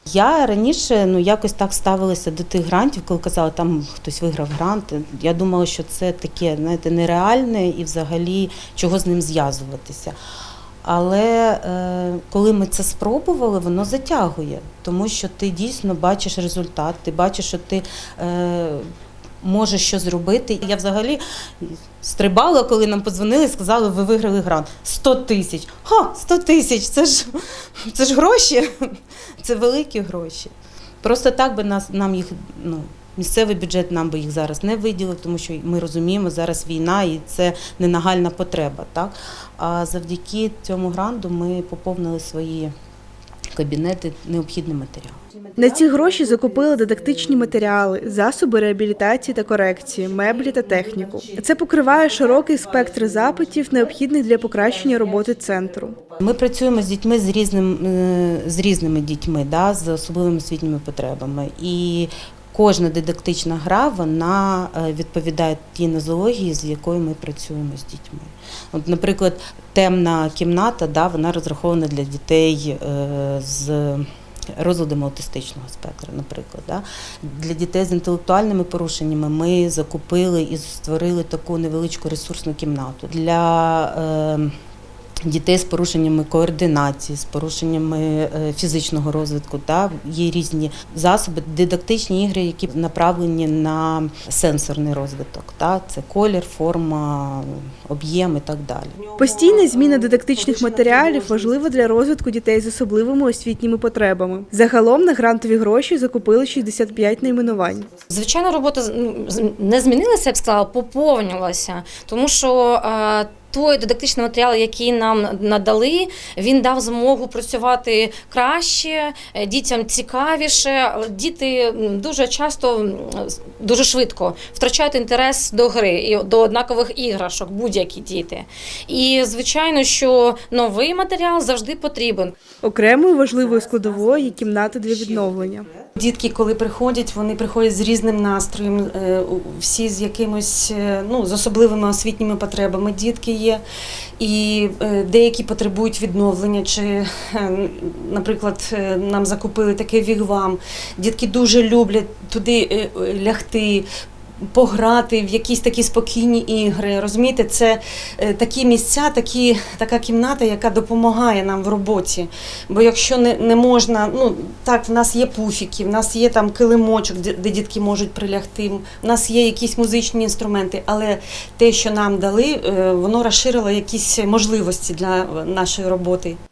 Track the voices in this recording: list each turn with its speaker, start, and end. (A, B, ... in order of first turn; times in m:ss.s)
0:00.1-0:10.2 A
0:10.8-0:18.9 A
0:19.4-0:27.3 A
0:27.8-0:28.7 A
0:29.4-0:42.7 A
0:43.5-0:45.2 A
0:45.6-0:56.0 B
0:56.2-1:24.5 A
1:25.2-1:39.0 A
1:39.0-1:41.6 C
1:39.2-1:47.9 B
1:48.1-2:12.4 D
2:12.6-2:15.7 B
2:16.0-2:23.6 C
2:24.2-2:33.9 C
2:34.4-2:56.4 C